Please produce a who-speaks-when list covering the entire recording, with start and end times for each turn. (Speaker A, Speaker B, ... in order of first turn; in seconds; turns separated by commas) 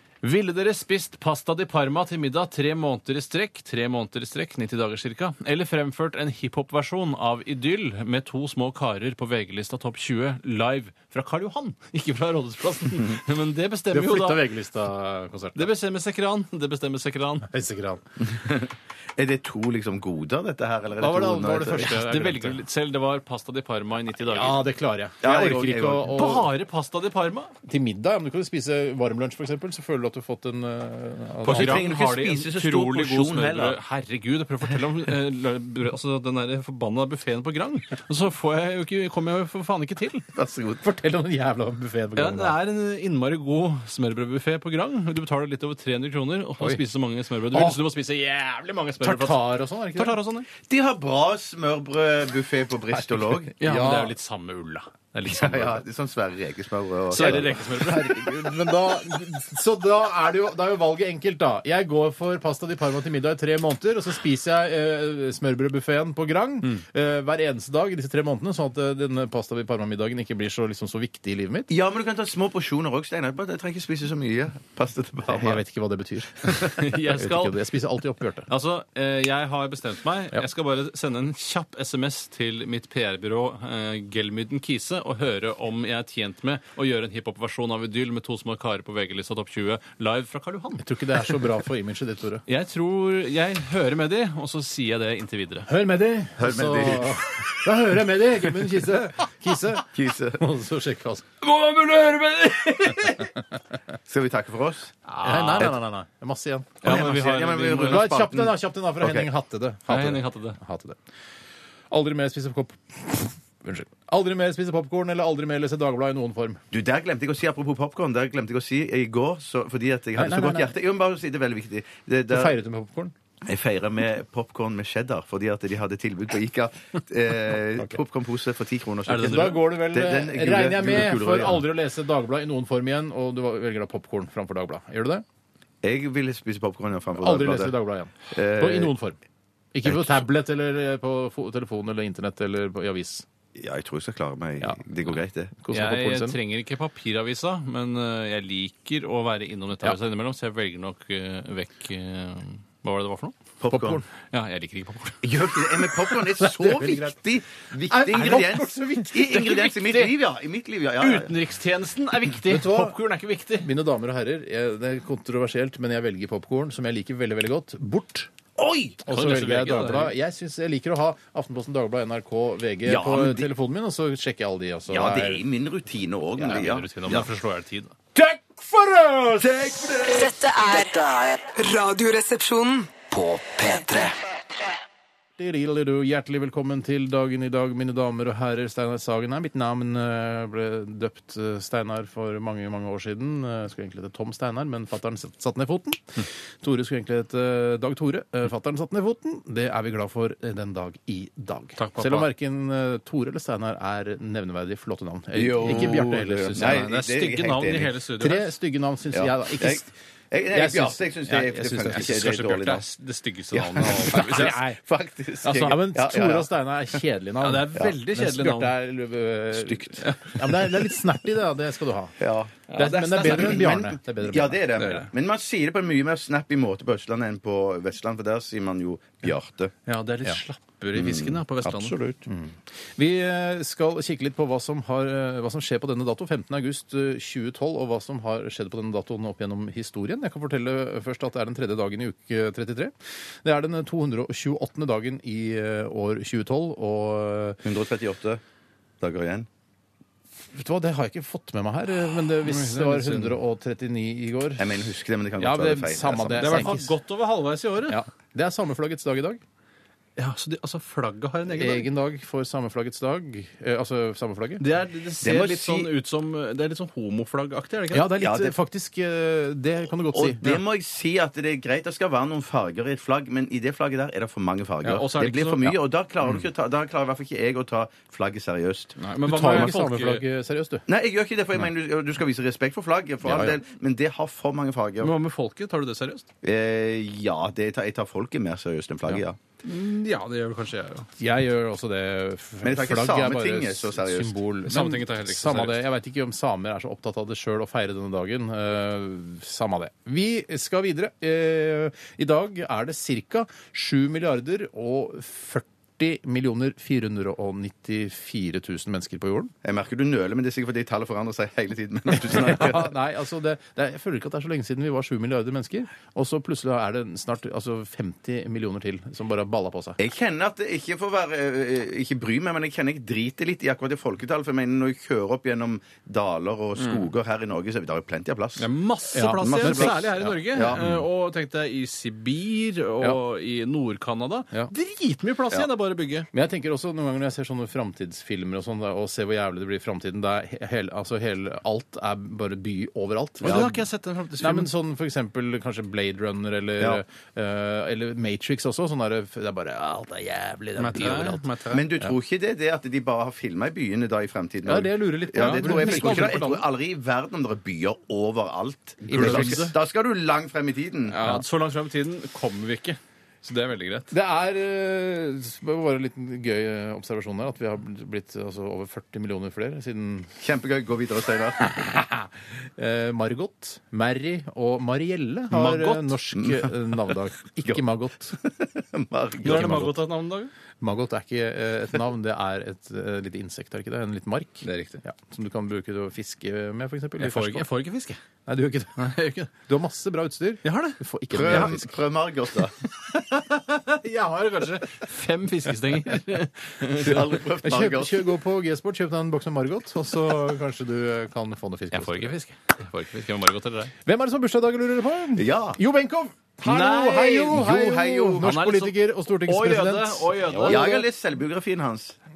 Speaker A: 0.2-14.5, Speaker B: 13.9-15.7, Speaker A: 15.6-17.5, Speaker B: 17.5-18.0, Speaker C: 18.3-21.9, Speaker B: 21.0-22.6, Speaker A: 21.8-24.6, Speaker B: 24.2-26.5, Speaker C: 25.2-26.2, Speaker A: 26.1-27.5, Speaker B: 27.7-31.9, Speaker A: 31.4-40.3, Speaker C: 31.4-33.8, Speaker C: 40.3-40.8, Speaker B: 40.8-42.6, Speaker A: 42.2-50.5, Speaker B: 47.5-47.8, Speaker B: 49.0-50.2, Speaker C: 50.6-53.5, Speaker B: 53.0-54.1, Speaker A: 53.6-55.8, Speaker C: 55.3-57.6, Speaker A: 57.1-58.7, Speaker B: 57.2-71.7, Speaker C: 71.7-75.6, Speaker B: 75.3-78.5, Speaker A: 76.6-77.6, Speaker A: 78.5-91.3, Speaker B: 90.8-92.4, Speaker A: 92.5-95.7, Speaker B: 95.7-101.3, Speaker C: 96.4-97.5, Speaker C: 99.9-100.4, Speaker A: 101.4-103.4, Speaker C: 104.1-104.9, Speaker B: 105.1-107.0, Speaker A: 105.2-105.7, Speaker A: 106.8-108.2, Speaker C: 106.8-109.3, Speaker B: 107.8-111.0, Speaker A: 109.9-110.6, Speaker B: 111.9-116.6, Speaker C: 116.7-122.6, Speaker B: 120.2-120.8, Speaker B: 122.3-123.1, Speaker C: 123.5-131.7, Speaker A: 129.1-129.7, Speaker B: 129.1-135.2, Speaker C: 135.8-137.7, Speaker B: 137.2-139.2, Speaker C: 138.3-138.9, Speaker B: 139.7-143.3, Speaker C: 139.8-140.2, Speaker C: 143.6-145.5, Speaker B: 145.6-146.4, Speaker A: 145.7-153.4, Speaker C: 153.6-154.0, Speaker B: 153.7-154.0, Speaker A: 154.2-155.2, Speaker C: 155.2-161.3, Speaker B: 156.4-157.2, Speaker B: 157.8-159.4, Speaker A: 159.2-160.1, Speaker A: 161.0-163.7, Speaker B: 162.4-163.0, Speaker B: 163.6-168.3, Speaker C: 168.6-169.0, Speaker B: 169.1-175.4, Speaker A: 169.1-170.2, Speaker C: 172.8-173.5, Speaker C: 174.9-177.3, Speaker A: 176.4-177.9, Speaker B: 178.2-180.0, Speaker C: 179.4-180.3, Speaker D: 180.1-180.9, Speaker E: 180.6-181.5, Speaker D: 181.6-182.9, Speaker E: 183.1-184.2, Speaker B: 185.4-206.8, Speaker A: 201.8-202.3, Speaker C: 205.3-207.9, Speaker A: 205.7-208.5, Speaker B: 208.2-209.9, Speaker C: 209.1-212.8, Speaker B: 210.5-212.3, Speaker A: 211.9-214.6, Speaker C: 213.5-216.5, Speaker B: 214.1-214.8, Speaker B: 215.5-222.2, Speaker A: 215.5-215.8, Speaker A: 217.4-218.8, Speaker C: 219.6-220.0, Speaker A: 220.0-220.9, Speaker C: 222.2-229.7, Speaker B: 222.7-224.7, Speaker A: 222.7-223.7, Speaker A: 224.8-225.1, Speaker A: 229.9-232.0, Speaker C: 230.9-232.2, Speaker B: 232.3-247.6, Speaker C: 247.6-248.4, Speaker C: 249.0-249.5, Speaker B: 250.5-254.7, Speaker A: 252.4-253.4, Speaker C: 254.6-256.8, Speaker B: 255.4-256.9, Speaker A: 256.4-258.0, Speaker B: 257.9-259.4, Speaker A: 260.2-261.9, Speaker B: 261.5-264.6, Speaker A: 264.6-268.1, Speaker C: 265.2-265.9, Speaker B: 267.9-270.6, Speaker C: 268.2-268.6, Speaker C: 270.1-279.0, Speaker A: 274.8-275.8, Speaker A: 279.0-280.2, Speaker B: 279.2-280.9, Speaker C: 280.9-285.1, Speaker B: 283.2-283.6, Speaker A: 285.0-286.3, Speaker C: 286.4-289.4, Speaker A: 289.6-291.1, Speaker B: 291.2-309.5, Speaker C: 292.6-294.4, Speaker A: 294.7-295.9, Speaker C: 309.6-312.9, Speaker B: 312.1-320.0, Speaker C: 320.0-328.7, Speaker A: 326.8-327.1, Speaker A: 328.6-336.3, Speaker B: 329.1-331.0, Speaker C: 329.2-330.8, Speaker B: 336.3-343.8, Speaker A: 343.4-344.7, Speaker B: 344.4-351.5, Speaker A: 350.8-351.8, Speaker C: 351.7-361.2, Speaker B: 354.7-356.6, Speaker A: 355.4-356.5, Speaker B: 359.1-359.8, Speaker A: 359.1-359.7, Speaker A: 361.1-364.1, Speaker B: 364.1-370.4, Speaker C: 370.4-371.6, Speaker B: 371.6-378.4, Speaker A: 375.5-376.2, Speaker C: 376.4-376.7, Speaker C: 378.3-379.9, Speaker A: 379.4-380.5, Speaker B: 379.5-379.9, Speaker B: 380.8-387.7, Speaker A: 384.6-385.0, Speaker A: 387.2-388.2, Speaker B: 388.5-392.0, Speaker A: 389.0-389.4, Speaker A: 390.6-391.7, Speaker C: 391.3-392.7, Speaker A: 392.9-397.4, Speaker C: 396.9-398.3, Speaker B: 397.6-402.4, Speaker A: 401.9-403.9, Speaker B: 404.1-411.0, Speaker C: 405.4-405.8, Speaker A: 406.6-407.7, Speaker C: 407.5-408.5, Speaker A: 408.4-411.0, Speaker C: 410.6-412.2